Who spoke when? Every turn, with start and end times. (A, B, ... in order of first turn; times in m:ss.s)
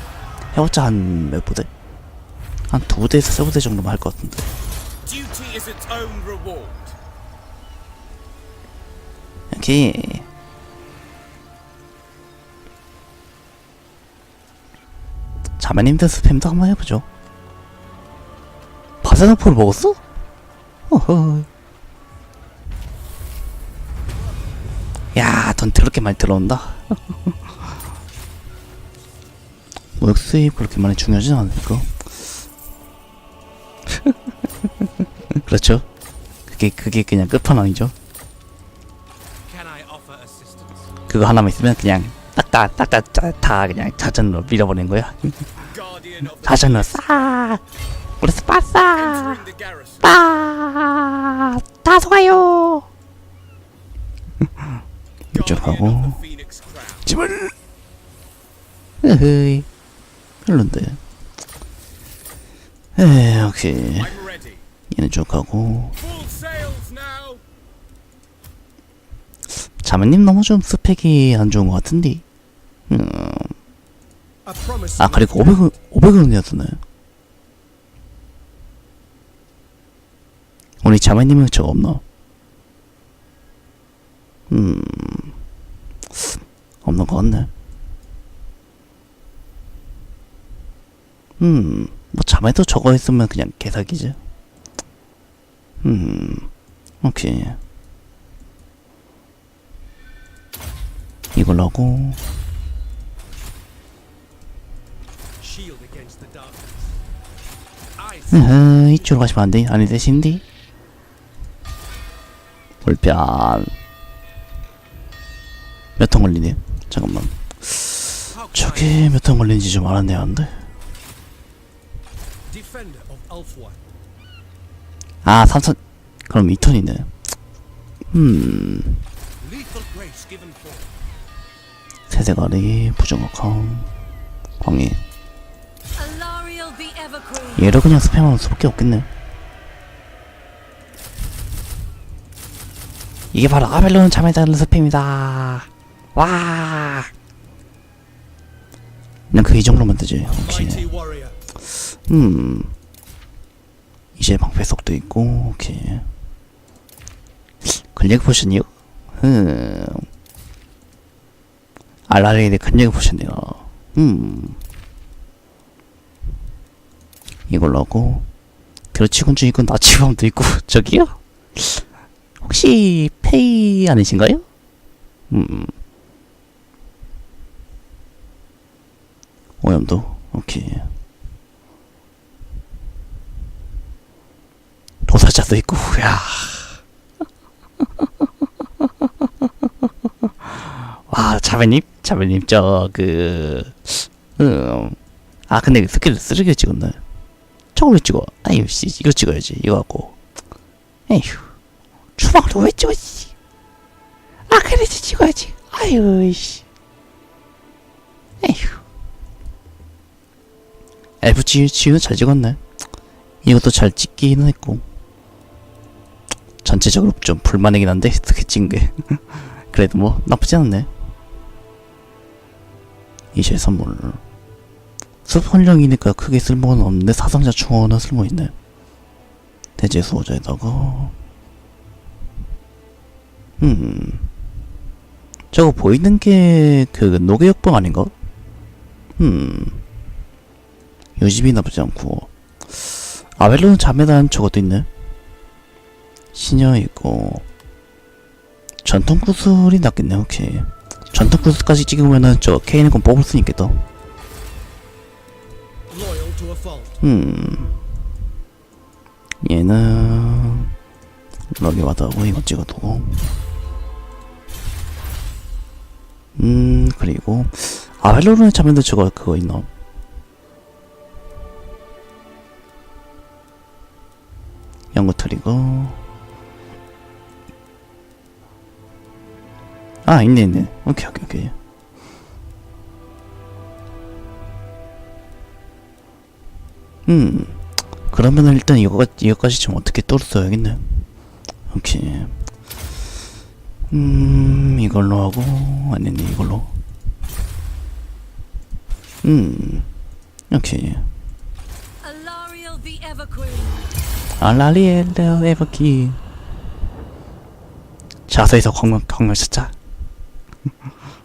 0:00.5-0:01.7 A
0:02.7-0:04.5 A
0:05.0-0:07.0 B
0:09.5-0:10.3 A
0:15.6-0:17.1 A
0:19.0-0:20.0 A
0:20.9-0:21.5 A
0:25.2-0:27.0 A
0:30.0-0:32.0 A
0:33.9-0:34.2 A
0:35.3-0:35.9 A
0:36.5-0:37.9 A
0:39.4-0:40.9 B
0:41.1-0:45.4 A
0:45.7-0:47.4 B
0:46.4-0:47.6 A
0:48.2-0:49.4 A
0:48.9-0:50.2 B
0:50.0-0:52.9 A
0:55.3-0:56.2 A
0:55.3-0:57.1 B
0:57.1-0:57.5 A
0:59.0-0:59.7 A
1:00.4-1:01.0 A
1:03.0-1:04.2 A
1:04.0-1:04.6 B
1:04.9-1:06.0 A
1:06.0-1:07.4 B
1:09.8-1:12.2 A
1:12.9-1:13.6 A
1:14.4-1:15.7 B
1:15.0-1:16.8 A
1:20.8-1:22.0 A
1:24.5-1:25.3 A
1:26.8-1:27.5 A
1:31.4-1:34.2 A
1:35.8-1:36.5 A
1:37.0-1:37.6 A
1:41.4-1:42.2 A
1:45.4-1:46.9 B
1:48.0-1:48.9 B
1:48.3-1:50.4 A
1:52.8-1:53.7 A
1:56.0-2:00.6 A
1:58.3-1:59.2 B
2:02.5-2:03.8 B
2:05.2-2:07.1 A
2:08.1-2:09.1 A
2:09.4-2:11.0 B
2:12.1-2:13.9 A
2:14.6-2:15.0 A
2:16.0-2:17.8 C
2:17.6-2:19.1 A
2:23.3-2:27.1 A
2:29.3-2:30.9 A
2:30.3-2:31.4 B
2:32.1-2:32.8 A
2:34.2-2:36.1 A
2:37.6-2:40.1 A
2:42.1-2:44.6 A
2:47.5-2:48.3 A
2:48.9-2:51.8 A
2:52.4-2:54.4 A
2:55.3-2:55.7 A
2:59.6-3:00.9 A
3:05.1-3:06.8 A
3:11.1-3:15.0 A
3:15.5-3:17.0 A
3:17.8-3:20.2 A
3:21.1-3:21.5 A
3:22.2-3:23.3 A
3:24.5-3:26.6 A
3:28.4-3:28.8 A
3:31.2-3:32.6 A
3:33.4-3:34.8 A
3:36.6-3:40.9 A
3:43.3-3:44.2 A
3:45.2-3:48.5 A
3:49.8-3:51.2 A
3:53.6-3:54.3 A
3:55.5-3:58.1 A
3:59.2-3:59.8 A
4:01.2-4:02.3 A
4:03.4-4:04.9 A
4:06.3-4:07.5 A
4:08.8-4:13.8 A
4:15.9-4:17.0 B
4:17.0-4:17.8 A
4:19.4-4:20.7 A
4:21.6-4:23.3 A
4:26.4-4:29.7 A
4:34.9-4:36.0 A
4:40.0-4:41.6 A
4:47.1-4:47.6 A
4:48.1-4:51.1 A
4:51.7-4:52.4 A
4:53.9-4:56.8 A
4:59.2-4:59.9 A
5:00.5-5:01.1 A
5:02.0-5:03.9 C
5:04.4-5:06.2 A
5:08.3-5:09.7 A